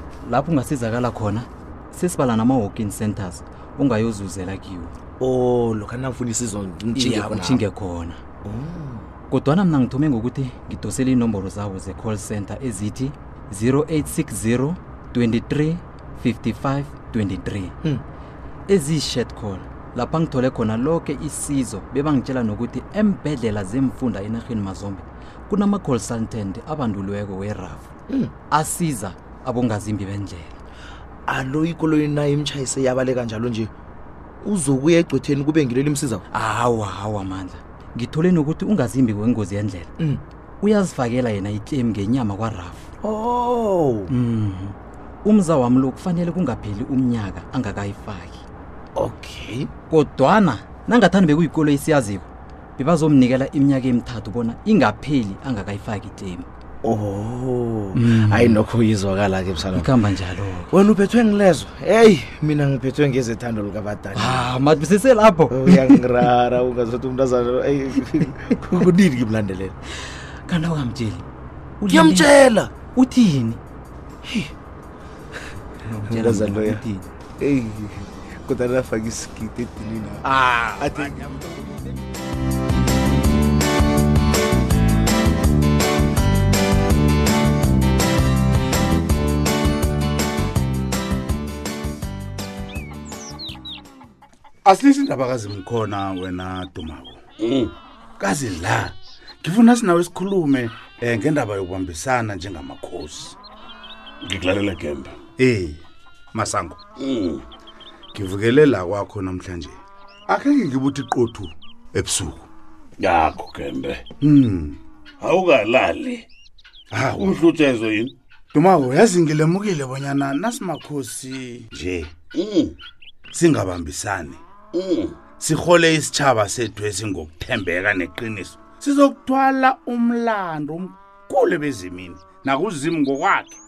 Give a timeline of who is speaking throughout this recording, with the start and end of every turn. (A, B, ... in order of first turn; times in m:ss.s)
0:00.2-0:04.9 A
0:05.2-0:07.7 B
0:07.0-0:08.2 A
0:08.4-0:09.1 B
0:09.3-0:17.7 A
0:18.7-0:27.9 A
0:28.5-0:30.5 A
0:31.3-0:33.7 B
0:34.4-0:36.2 B
0:36.3-0:39.9 A
0:40.6-0:42.9 A
0:43.0-0:44.1 B
0:44.1-0:48.4 A
0:49.0-0:49.7 B
0:49.9-0:56.5 A
0:56.8-0:59.9 B
0:57.9-0:58.6 A
0:59.7-1:00.7 A
1:00.7-1:04.5 B
1:04.1-1:06.0 A
1:05.5-1:09.8 B
1:10.4-1:11.2 A
1:11.8-1:13.6 A
1:11.9-1:12.7 B
1:14.2-1:14.5 B
1:15.8-1:17.0 A
1:16.0-1:21.3 B
1:20.6-1:21.1 C
1:34.6-1:37.2 C
1:37.4-1:37.7 D
1:38.2-1:43.3 C
1:44.2-1:45.2 D
1:45.4-1:45.8 C
1:46.3-1:46.8 C
1:47.0-1:47.4 D
1:48.1-1:49.7 C
1:50.3-1:52.4 C
1:53.0-1:54.0 D
1:54.2-1:54.8 C
1:55.2-1:56.2 D
1:56.9-1:57.5 C
1:57.2-1:58.1 D
1:58.5-2:02.1 C
2:02.3-2:02.7 D
2:03.3-2:04.4 C
2:04.7-2:05.2 D
2:05.4-2:13.6 C